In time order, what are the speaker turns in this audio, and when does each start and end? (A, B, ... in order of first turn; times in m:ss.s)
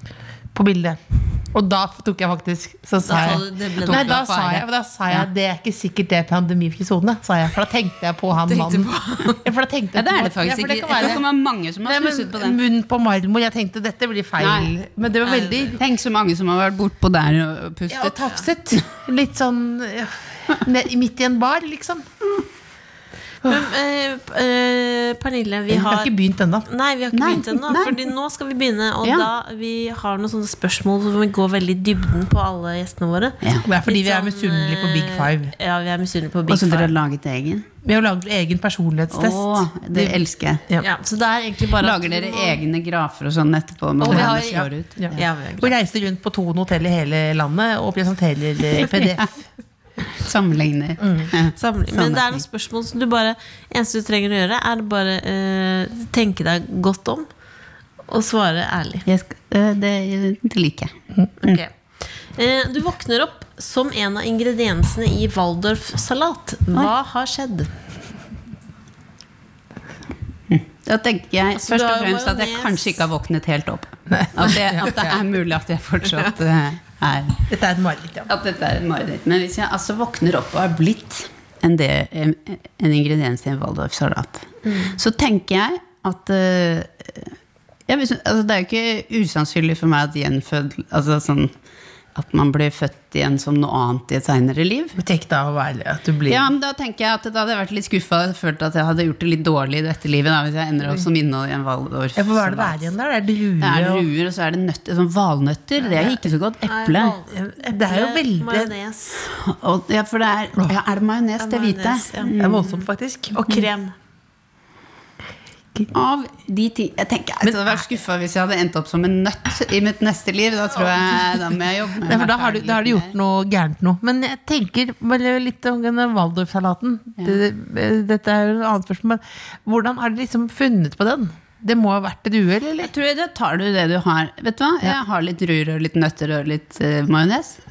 0:00.5-0:11.2 A
0:03.0-0:04.6 B
0:03.1-0:04.6 C
0:08.4-0:09.4 B
0:10.0-0:12.6 C
0:11.8-0:15.8 A
0:14.4-0:14.7 C
0:15.2-0:15.8 B
0:15.8-0:18.2 C
0:17.9-0:22.1 A
0:23.4-0:26.1 B
0:25.7-0:26.7 A
0:26.7-0:37.0 B
0:27.1-0:28.0 C
0:33.6-0:35.6 A
0:36.5-0:37.7 C
0:37.8-0:40.9 A
0:39.1-0:40.6 C
0:40.8-0:42.6 B
0:41.8-0:45.2 C
0:44.0-0:44.6 B
0:44.0-0:49.4 A
0:45.1-0:45.7 B
0:48.8-0:49.3 C
0:50.1-0:52.4 C
0:51.0-0:51.3 A
0:51.6-0:57.3 B
0:58.1-0:59.1 B
0:59.1-1:00.9 C
1:01.4-1:01.7 B
1:02.4-1:07.7 B
1:10.5-1:17.5 C
1:11.6-1:13.0 B
1:14.1-1:15.2 A
1:17.5-1:18.3 A
1:18.3-1:27.3 C
1:27.9-1:31.5 C
1:32.2-1:35.0 C
1:35.0-1:36.5 A
1:36.3-1:42.8 C
1:42.2-1:44.1 A
1:43.6-1:47.2 C
1:45.8-1:46.2 A
1:46.6-1:49.3 B
1:47.3-1:48.7 A
1:49.3-1:52.7 C
1:51.4-1:52.8 B
1:52.4-1:53.7 A
1:53.4-1:54.0 B
1:55.9-2:03.1 C
1:57.4-1:57.8 A
2:00.9-2:01.4 A
2:02.0-2:12.9 A
2:12.8-2:17.6 C